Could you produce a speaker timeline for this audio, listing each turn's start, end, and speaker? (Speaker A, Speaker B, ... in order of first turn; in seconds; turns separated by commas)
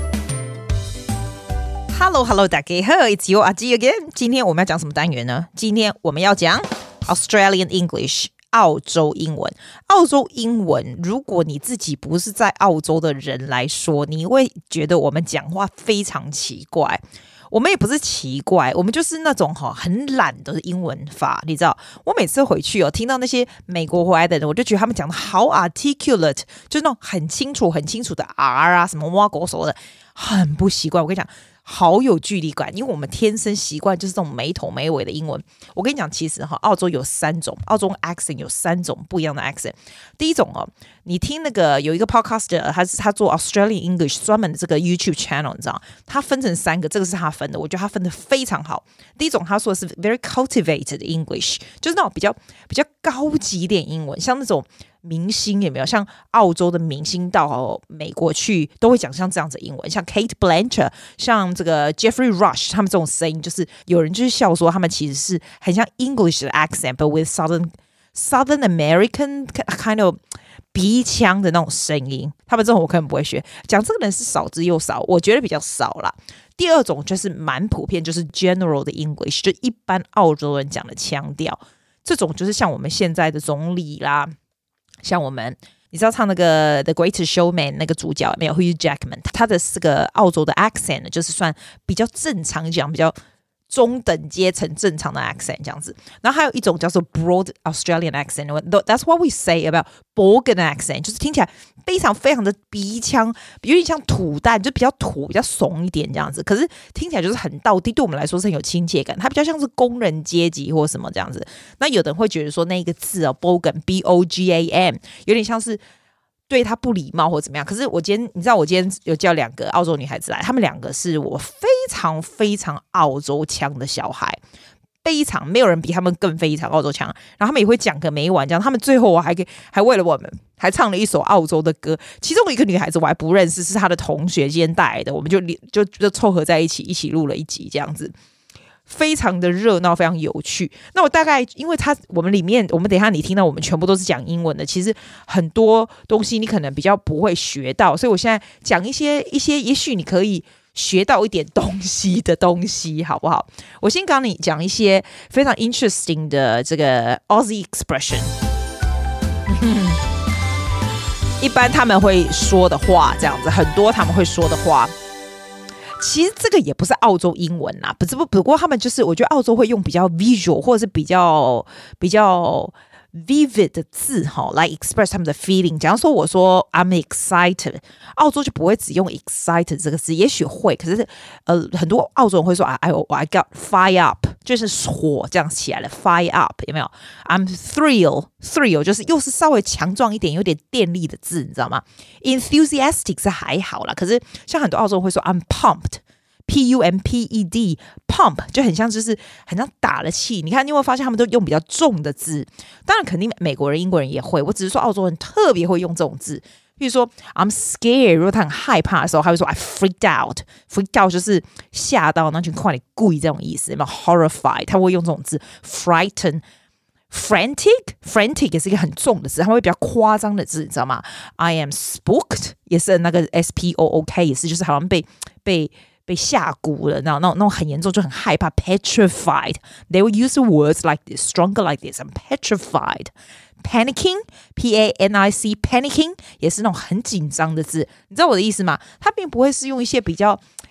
Speaker A: 1.9-70.2, Speaker A: 70.7-84.3, Speaker A: 85.0-93.2, Speaker A: 93.7-115.8, Speaker A: 116.5-124.4, Speaker A: 125.0-138.1, Speaker A: 138.9-158.3, Speaker A: 159.5-160.0, Speaker A: 161.4-164.9, Speaker A: 166.0-216.4, Speaker A: 217.1-240.4